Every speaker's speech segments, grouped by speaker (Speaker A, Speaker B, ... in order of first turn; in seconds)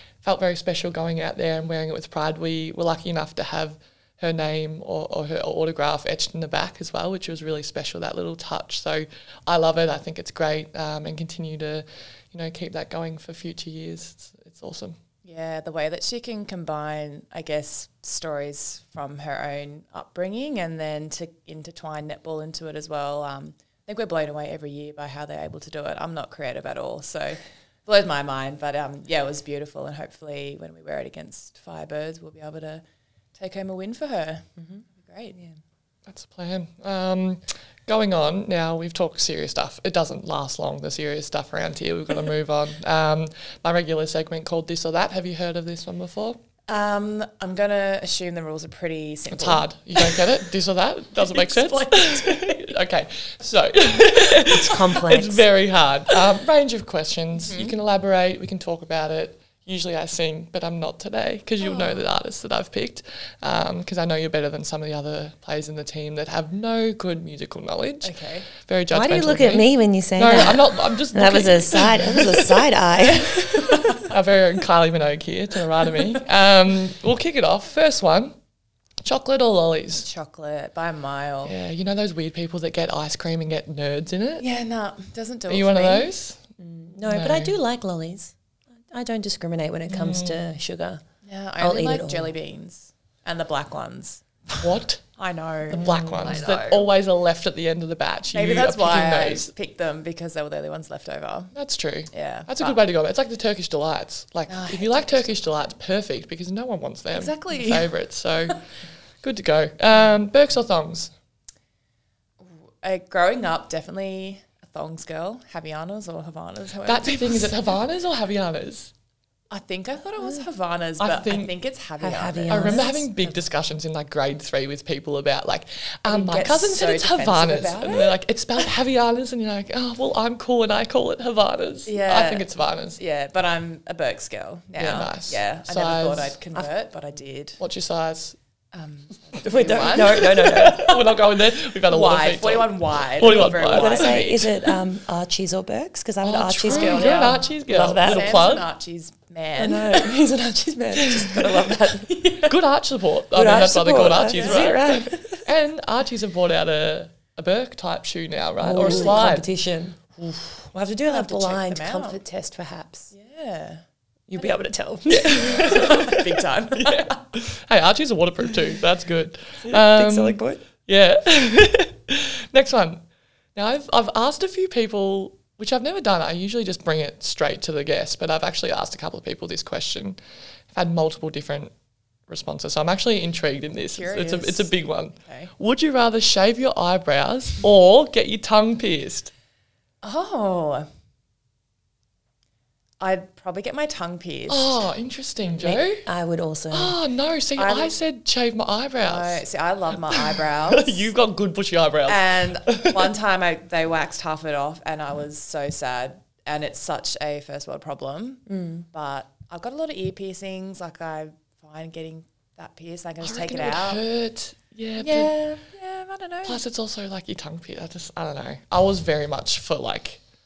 Speaker A: 0.2-14.9, 36.0-46.4, 49.3-72.5, 73.9-78.3, 79.0-80.1, 81.4-84.4, 85.5-86.4, 87.1-87.5, 89.9-90.4, 94.6-95.0, 95.7-99.5, 101.5-108.6, 109.2-111.1, 116.8-118.9, 121.0-121.5, 122.5-133.0, 134.8-136.4, 137.6-138.3, 139.7-144.4, 146.2-148.7, 151.0-151.4, 152.4-159.5, 160.2-160.7, 165.1-166.1, 166.7-173.0, 173.5-180.2, 180.7-181.7, 182.3-189.3, 194.5-196.0, 196.7-199.4, 200.1-203.1, 213.2-215.3, 216.4-220.2
Speaker B: 15.2-32.8, 33.4-35.5, 46.7-50.3, 51.2-52.7, 57.4-57.8, 61.6-62.0, 68.0-68.5, 73.2-74.1, 79.9-81.5, 84.4-86.1, 91.2-96.9, 98.3-101.5, 102.1-102.8, 104.5-105.3, 107.1-107.9, 112.4-117.5, 119.5-122.9, 126.0-128.2, 131.8-137.6, 138.7-141.2, 141.9-144.5, 146.7-150.1, 152.1-152.5, 154.3-154.7, 158.8-159.2, 161.1-162.2, 163.1-163.8, 165.4-167.2, 183.9-185.5, 190.0-190.9, 193.0-194.8, 197.6-197.9, 199.0-201.1, 202.1-214.0, 215.0-216.6
Speaker C: 54.5-55.5, 68.9-73.8, 86.6-88.3, 88.9-91.0, 91.6-92.3, 95.7-96.4, 122.0-123.4, 139.4-141.0, 143.2-148.4, 149.6-152.1, 153.3-155.4, 158.6-160.0, 160.7-163.1, 164.3-166.2, 169.6-170.6, 195.6-197.0, 208.5-208.8